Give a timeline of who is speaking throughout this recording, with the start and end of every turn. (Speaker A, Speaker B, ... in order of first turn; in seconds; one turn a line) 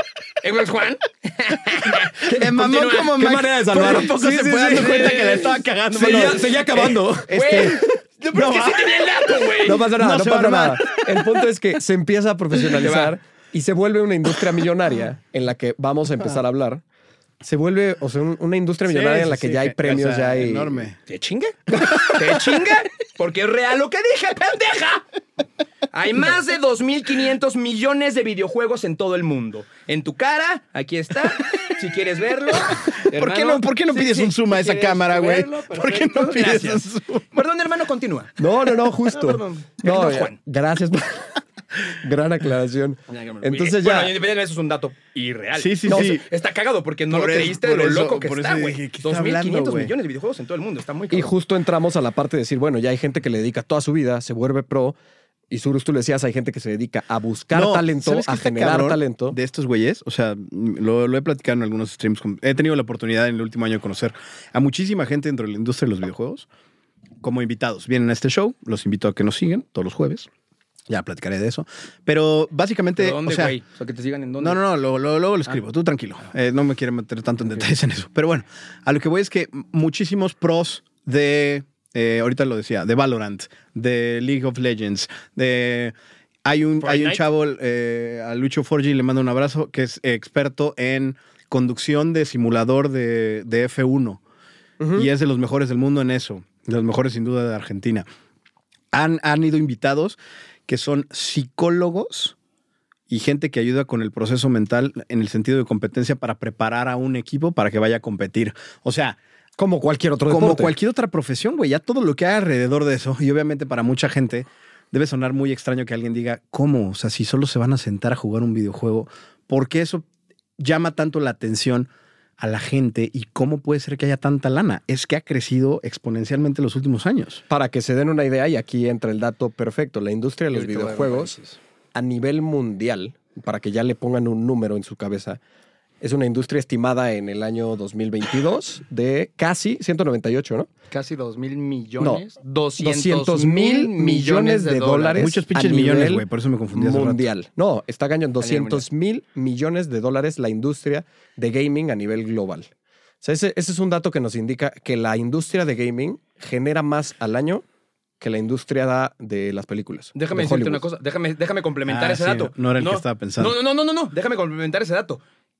Speaker A: 0.4-3.1
Speaker B: 2.2-6.4
Speaker C: 2.3-7.8
Speaker A: 4.7-9.9
Speaker B: 7.3-8.9
Speaker C: 9.6-16.8
Speaker B: 9.9-11.2
Speaker A: 12.8-13.2
Speaker C: 17.4-20.9
Speaker B: 18.9-21.0
Speaker A: 21.1-25.0
Speaker A: 25.9-38.4
Speaker B: 32.7-37.2
Speaker C: 38.4-44.1
Speaker A: 39.0-40.4
Speaker A: 43.1-51.3
Speaker B: 45.5-46.2
Speaker C: 45.9-46.2
Speaker B: 47.1-49.9
Speaker C: 51.1-55.0
Speaker C: 55.5-59.4
Speaker B: 57.5-66.5
Speaker B: 67.2-70.3
Speaker B: 70.9-73.5
Speaker A: 73.0-74.6
Speaker B: 74.4-85.9
Speaker B: 86.4-94.2
Speaker A: 86.8-87.2
Speaker C: 94.8-95.1
Speaker B: 95.0-98.0
Speaker B: 98.9-102.3
Speaker B: 103.1-109.2
Speaker C: 109.6-110.7
Speaker B: 110.3-120.0
Speaker B: 120.6-127.4
Speaker C: 127.5-131.3
Speaker A: 130.5-131.6
Speaker C: 131.9-135.4
Speaker C: 136.0-140.7
Speaker A: 140.9-145.3
Speaker C: 142.8-152.7
Speaker B: 145.1-147.3
Speaker A: 148.4-148.8
Speaker C: 153.2-157.6
Speaker C: 158.2-160.8
Speaker A: 160.1-165.2
Speaker B: 161.9-163.6